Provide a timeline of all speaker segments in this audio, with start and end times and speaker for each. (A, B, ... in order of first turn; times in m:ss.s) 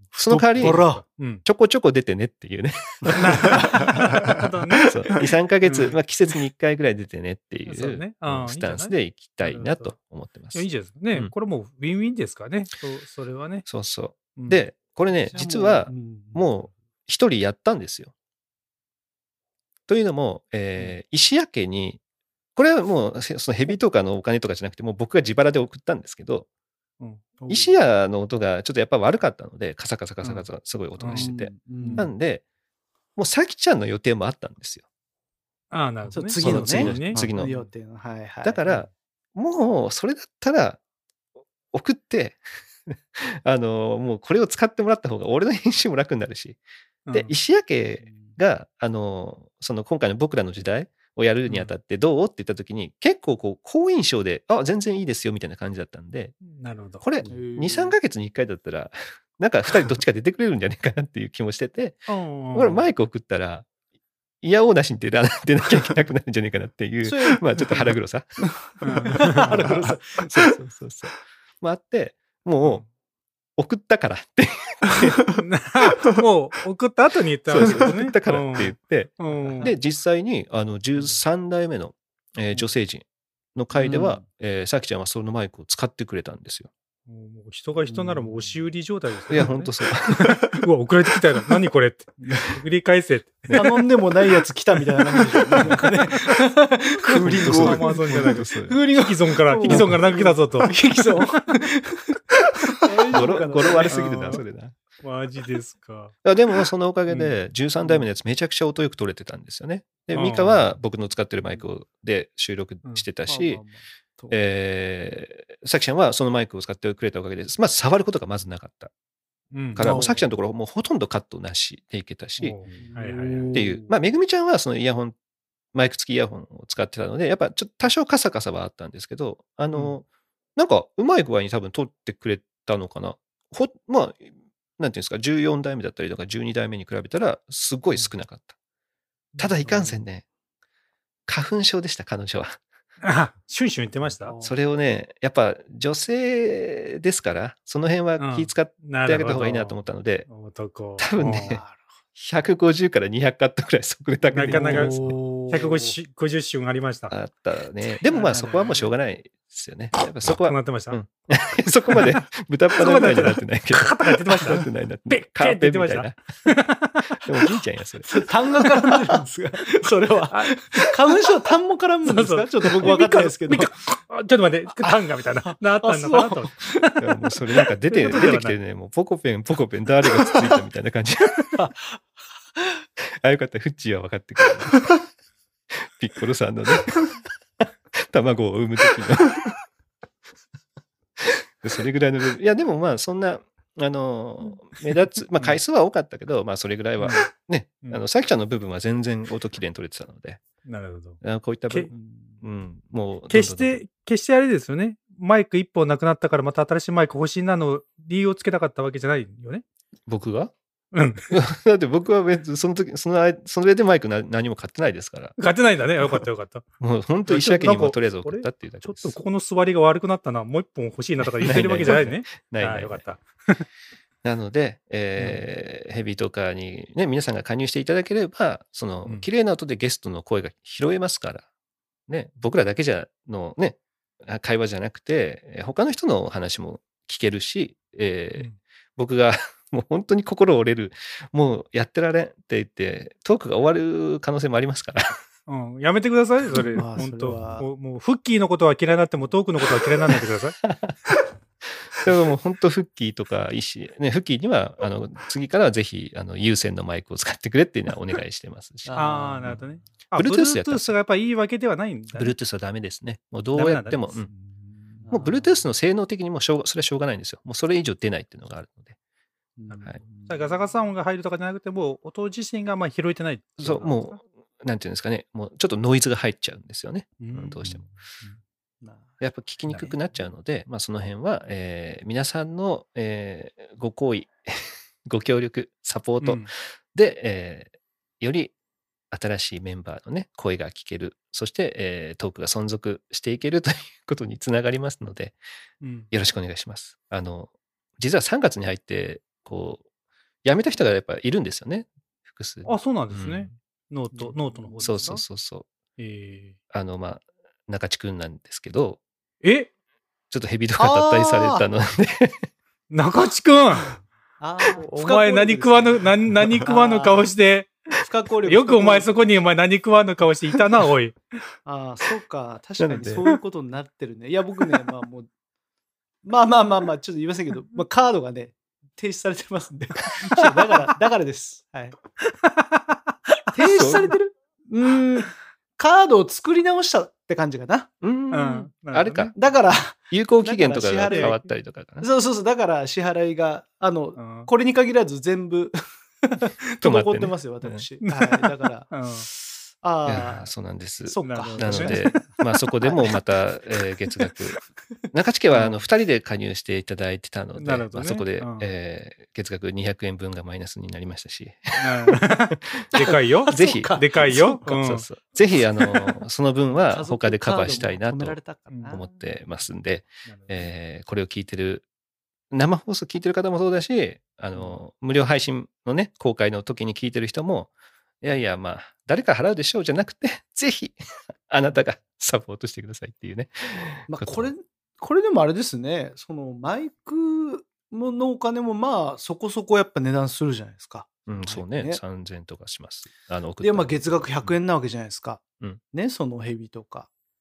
0:00.1-0:00.9 A
0:00.3-0:01.0 B
0:00.5-0:01.4 C
0:01.4-0:03.9 A
0:03.1-0:06.0 C
0:03.5-0:04.1 B
0:04.8-0:11.3 A
0:07.6-0:09.9 C
0:10.5-0:13.7 C
0:13.6-0:18.1 A
0:14.3-0:14.6 C
0:15.2-0:16.5 B
0:19.9-0:22.0 A
0:22.6-0:26.5 A
0:27.4-0:27.8 B
0:27.5-0:32.4 A
0:30.2-0:30.5 C
0:31.0-0:32.1 C
0:31.1-0:32.1 B
0:33.2-0:34.8 A
0:35.7-0:37.2 C
0:36.1-0:38.9 B
0:36.4-0:37.7 A
0:38.4-0:40.8 A
0:41.7-0:46.6 A
0:47.0-0:47.3 C
0:47.1-0:56.3 A
0:56.4-0:57.0 C
0:57.0-1:03.7 A
0:57.2-0:58.0 B
1:02.1-1:02.8 C
1:04.4-1:08.3 A
1:07.0-1:07.9 B
1:08.8-1:09.6 C
1:09.0-1:10.3 B
1:10.2-1:12.8 A
1:13.6-1:15.2 A
1:15.3-1:19.7 C
1:17.5-1:26.7 A
1:23.8-1:24.2 B
1:27.1-1:33.7 C
1:27.9-1:28.5 B
1:29.3-1:30.4 A
1:33.5-1:44.0 B
1:35.2-1:36.3 C
1:37.1-1:38.8 A
1:37.2-1:40.7 C
1:39.6-1:39.9 A
1:43.1-1:44.7 A
1:43.8-1:44.4 C
1:45.0-1:46.1 C
1:46.2-1:53.6 A
1:47.1-1:47.3 C
1:50.1-1:50.6 C
1:53.3-1:54.3 B
1:54.3-1:58.9 A
1:59.5-2:00.1 C
1:59.7-2:02.6 A
1:59.8-2:00.2 B
2:02.4-2:03.6 C
2:02.7-2:03.9 B
2:03.5-2:05.2 A
2:05.7-2:10.0 A
2:10.6-2:18.5 A
2:19.3-2:19.6 C
2:19.4-2:20.2 A
2:19.6-2:20.0 B
2:21.3-2:22.6 A
2:23.0-2:24.3 C
2:24.2-2:24.6 B
2:24.4-2:30.3 A
2:28.2-2:29.8 C
2:30.3-2:31.6 C
2:31.0-2:31.6 A
2:31.3-2:31.8 B
2:32.2-2:35.1 A
2:34.3-2:37.1 C
2:34.4-2:36.0 B
2:37.1-2:46.2 A
2:38.1-2:38.8 B
2:40.2-2:41.0 C
2:41.9-2:42.2 C
2:42.8-2:47.2 C
2:47.2-2:48.2 A
2:48.1-2:53.7 B
2:48.7-2:49.0 C
2:50.3-2:51.0 C
2:52.0-2:57.0 C
2:54.8-2:56.9 B
2:57.0-3:01.6 A
2:57.9-2:58.6 C
3:01.6-3:02.0 B
3:03.2-3:04.9 A
3:05.8-3:09.6 A
3:11.2-3:20.4 A
3:17.0-3:17.3 C
3:20.6-3:21.9 C
3:21.2-3:23.8 A
3:21.9-3:22.4 B
3:23.3-3:29.6 C
3:30.1-3:30.5 A
3:30.9-3:31.3 C
3:31.3-3:35.4 A
3:35.4-3:36.6 C
3:36.8-3:39.2 A
3:37.3-3:43.6 C
3:41.4-3:43.0 A
3:44.2-3:51.4 A
3:45.2-3:45.4 C
3:52.1-4:05.2 A
4:05.5-4:10.6 C
4:06.7-4:07.7 B
4:10.6-4:11.0 A
4:12.0-4:19.6 A
4:18.8-4:19.8 B
4:18.9-4:22.3 C
4:20.2-4:21.0 A
4:22.1-4:24.3 A
4:23.5-4:24.2 C
4:24.3-4:25.4 B
4:25.1-4:29.0 A
4:29.6-4:30.6 B
4:29.7-4:34.1 C
4:33.6-4:37.9 A
4:37.2-4:37.8 C
4:38.8-4:39.1 B
4:39.2-4:48.5 A
4:46.2-4:46.5 C
4:49.1-4:55.4 A
4:55.8-4:56.1 C
4:56.1-4:59.8 A
5:00.4-5:03.5 A
5:02.6-5:05.2 C
5:04.1-5:04.9 B
5:04.8-5:05.7 A
5:06.0-5:06.6 C
5:06.7-5:09.0 A
5:09.4-5:09.7 C
5:10.3-5:12.5 A
5:10.8-5:11.7 B
5:12.9-5:13.9 C
5:14.4-5:17.3 B
5:14.7-5:17.7 C
5:18.0-5:19.2 B
5:18.4-5:21.2 C
5:21.6-5:25.3 B
5:22.8-5:23.3 A
5:26.2-5:32.0 B
5:32.2-5:33.4 C
5:33.5-5:37.9 B
5:33.6-5:34.1 A
5:38.0-5:39.4 A
5:38.3-5:39.3 C
5:39.4-5:41.4 B
5:39.9-5:42.1 A
5:41.1-5:41.4 C
5:42.0-5:50.5 B
5:44.2-5:44.5 C
5:46.8-5:47.8 A
5:48.0-5:49.3 C
5:50.0-6:02.3 A
5:51.0-5:52.2 B
5:51.2-5:52.0 C
5:52.8-5:53.2 B
5:57.6-5:58.7 C
6:01.8-6:05.0 C
6:02.9-6:04.7 B
6:03.5-6:08.4 A
6:06.8-6:09.1 B
6:08.7-6:09.0 C
6:08.9-6:11.8 A
6:10.2-6:10.7 C
6:12.5-6:17.7 A
6:18.2-6:21.0 A
6:21.5-6:24.5 A
6:24.1-6:32.0 B
6:31.3-6:34.5 A
6:33.6-6:37.1 B